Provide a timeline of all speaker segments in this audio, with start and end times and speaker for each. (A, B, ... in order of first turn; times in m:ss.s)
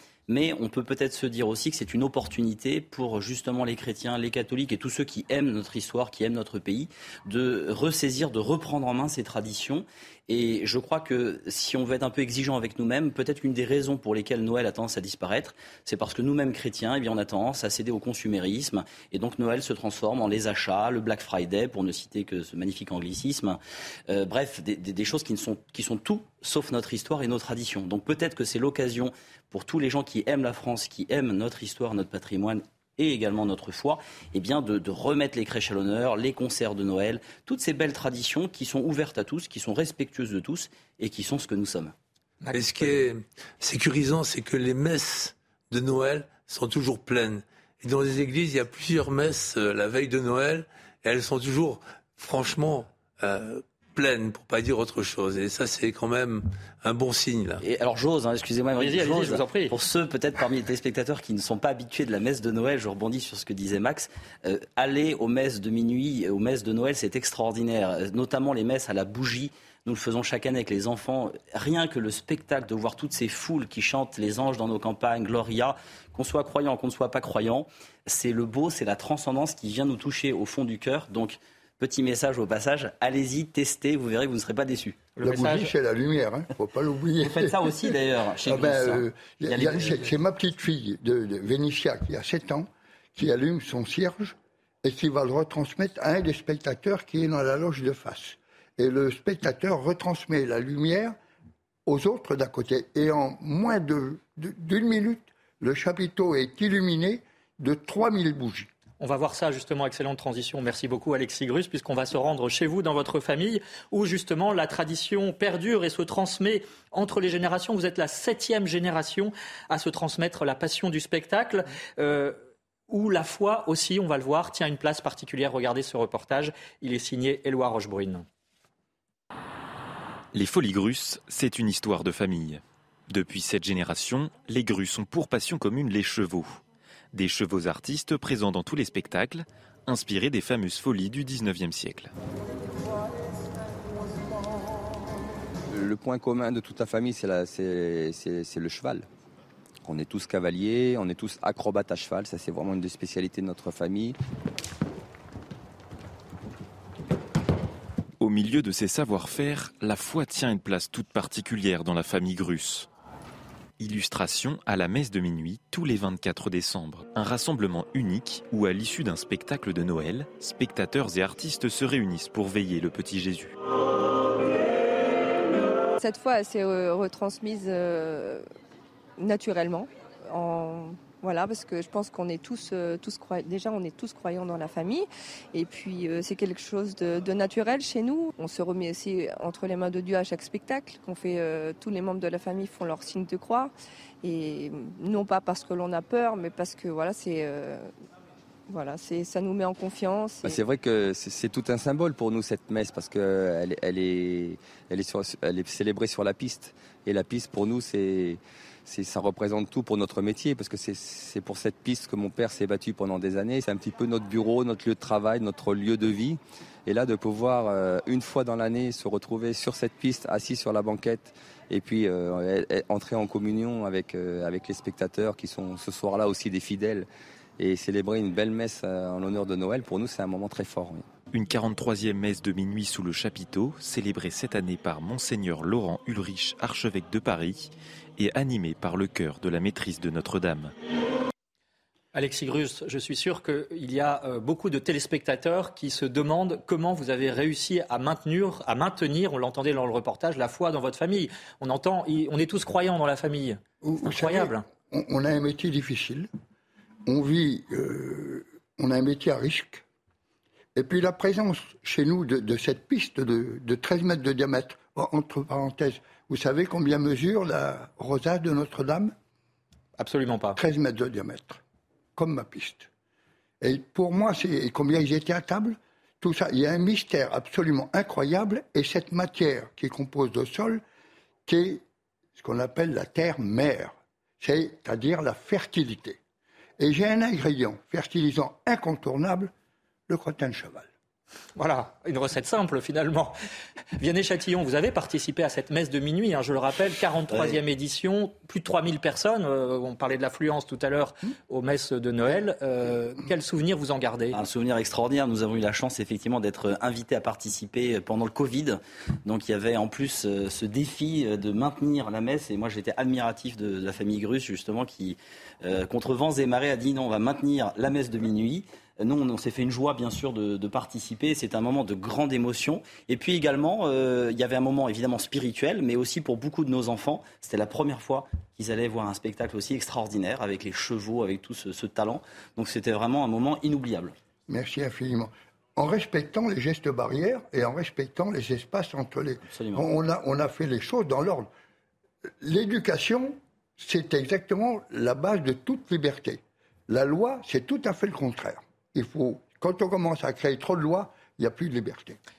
0:00.3-0:41.9 A
0:42.4-0:42.9 B
0:42.5-0:57.6 C
0:57.6-1:25.0 A
0:58.8-0:59.7 B
1:25.2-1:25.7 B
1:25.2-1:41.2 D
1:27.2-1:30.1 A
1:41.9-1:48.7 D
1:49.0-2:02.4 B
2:02.9-2:08.2 B
2:10.3-2:16.6 E
2:17.1-2:22.1 E
2:25.7-2:29.1 F
2:29.8-2:34.2 F
2:38.2-2:42.9 E
2:43.8-2:53.5 E
2:56.0-2:58.4 G
2:59.2-3:13.7 G
3:14.2-3:17.9 G
3:18.7-3:20.6 G
3:20.4-3:51.1 F
3:51.3-4:00.7 E
4:02.1-4:14.6 B
4:13.8-4:16.3 D
4:17.1-4:19.8 D
4:20.8-4:29.1 D
4:30.0-4:30.6 B
4:30.6-4:31.6 D
4:32.2-4:32.9 D
4:33.6-4:40.8 D
4:41.5-4:41.8 D
4:42.4-4:46.2 D
4:46.8-4:49.5 D
4:50.1-4:50.9 D
4:51.6-4:53.4 B
4:54.0-5:04.4 B
4:57.3-4:57.6 A
5:04.3-5:34.2 A
5:34.5-5:41.5 D
5:39.5-5:39.8 A
5:42.4-5:52.2 D